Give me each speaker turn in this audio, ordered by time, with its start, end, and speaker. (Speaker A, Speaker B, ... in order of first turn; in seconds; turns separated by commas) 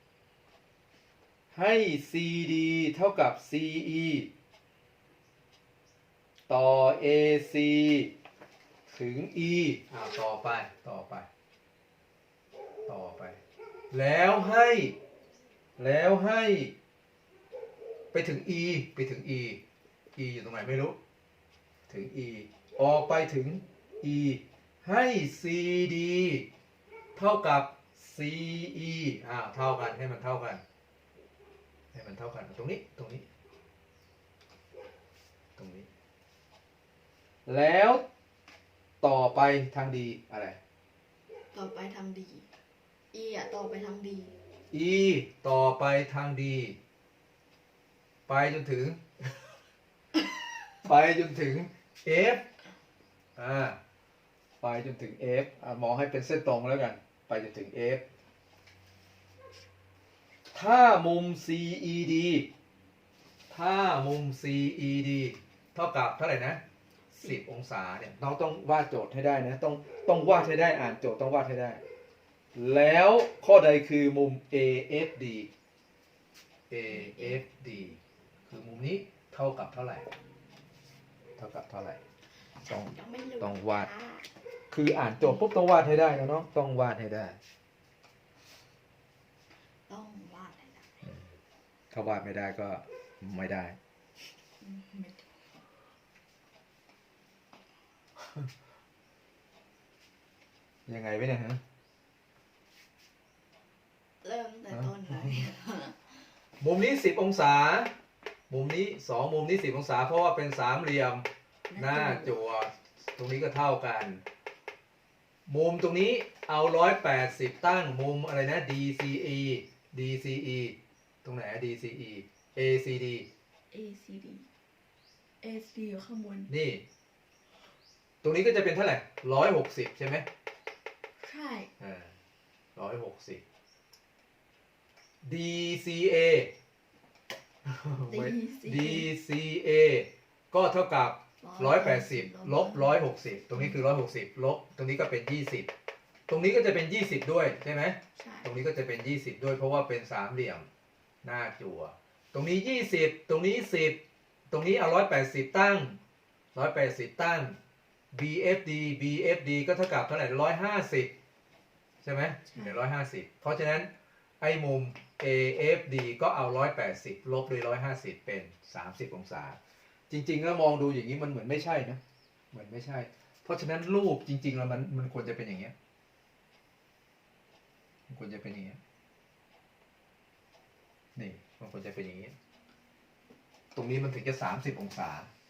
Speaker A: 1.5-4.3, Speaker A: 6.5-8.1, Speaker A: 8.9-11.3, Speaker A: 12.9-13.4, Speaker A: 13.9-14.9, Speaker A: 15.8-16.7, Speaker A: 18.1-19.6, Speaker A: 20.1-21.0, Speaker A: 21.9-26.5, Speaker A: 27.1-30.6, Speaker A: 31.9-33.2, Speaker A: 35.6-35.9, Speaker A: 37.5-38.0, Speaker A: 39.0-40.6, Speaker B: 41.5-42.5, Speaker B: 43.1-44.4, Speaker A: 44.7-46.8, Speaker A: 48.3-49.4, Speaker A: 50.8-52.4, Speaker A: 53.4-53.8, Speaker A: 54.6-58.0, Speaker A: 60.5-62.5, Speaker A: 63.5-66.6, Speaker A: 67.1-71.8, Speaker A: 72.5-75.5, Speaker A: 76.7-80.1, Speaker B: 76.9-77.4, Speaker A: 81.4-82.0, Speaker B: 82.6-84.3, Speaker A: 82.7-83.9, Speaker A: 84.7-87.4, Speaker B: 89.9-91.1, Speaker A: 91.9-93.8, Speaker B: 94.6-95.3, Speaker A: 100.9-101.6, Speaker B: 104.2-106.2, Speaker A: 104.7-105.4, Speaker A: 106.6-107.9, Speaker A: 108.5-114.2, Speaker B: 111.7-112.3, Speaker A: 115.5-123.3, Speaker B: 123.7-124.5, Speaker B: 125.4-126.5, Speaker A: 126.5-126.8, Speaker A: 128.2-130.3, Speaker B: 131.2-131.7, Speaker A: 131.8-132.2, Speaker A: 132.7-133.4, Speaker A: 135.2-136.5, Speaker A: 137.6-145.7, Speaker B: 138.0-139.1, Speaker B: 141.4-143.8, Speaker A: 146.3-150.7, Speaker B: 148.2-148.5, Speaker A: 151.2-156.0, Speaker A: 156.5-157.6, Speaker A: 158.1-161.1, Speaker A: 162.0-163.9, Speaker B: 162.5-162.8, Speaker A: 164.4-169.6, Speaker A: 170.1-172.0, Speaker A: 172.5-175.7, Speaker A: 178.1-178.8, Speaker A: 181.1-182.3, Speaker A: 183.7-185.3